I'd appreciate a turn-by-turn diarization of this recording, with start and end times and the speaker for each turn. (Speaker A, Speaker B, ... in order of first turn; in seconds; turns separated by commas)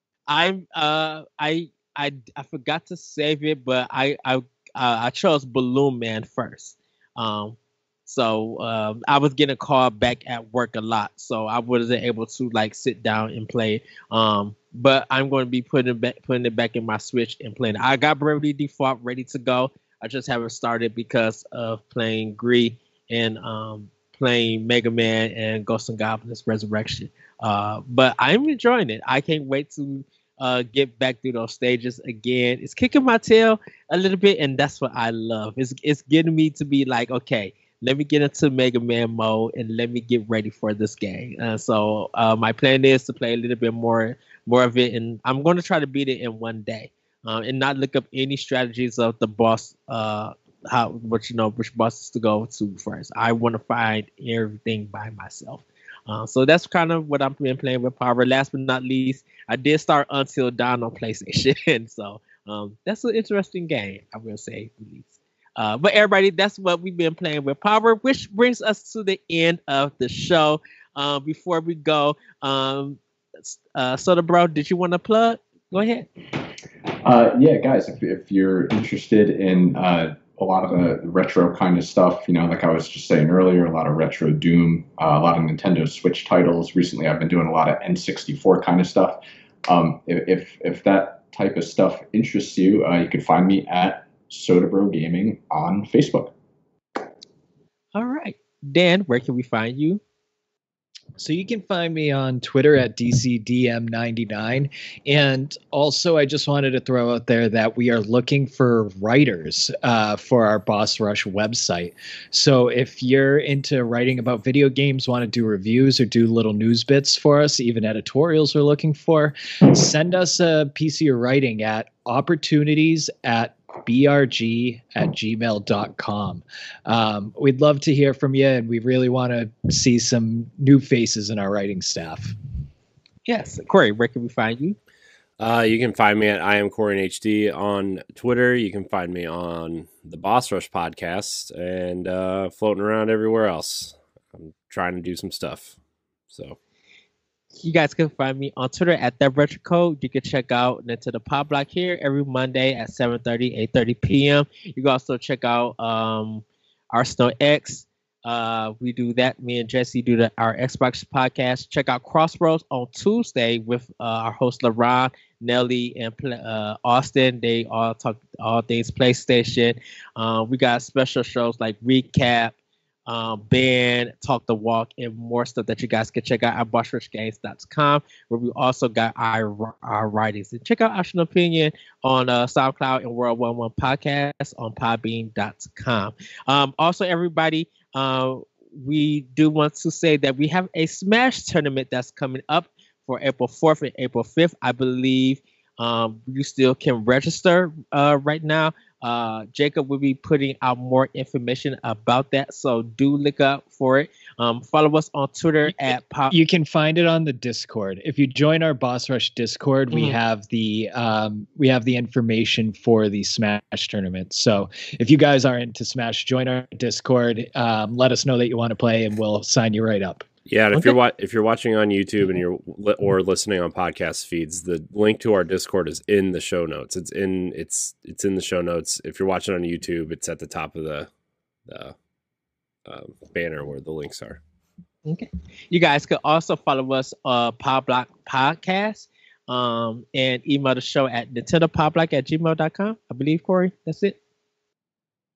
Speaker A: 0.3-76.1, Speaker B: 77.0-96.3, Speaker A: 97.9-100.0, Speaker C: 101.2-132.3, Speaker A: 133.2-134.8, Speaker D: 135.4-145.8, Speaker D: 146.3-146.6, Speaker A: 147.6-172.5, Speaker A: 173.1-206.3, Speaker C: 205.8-220.3, Speaker A: 209.9-210.2, Speaker D: 220.4-231.1, Speaker D: 231.7-231.9, Speaker D: 232.8-234.4, Speaker A: 235.0-244.2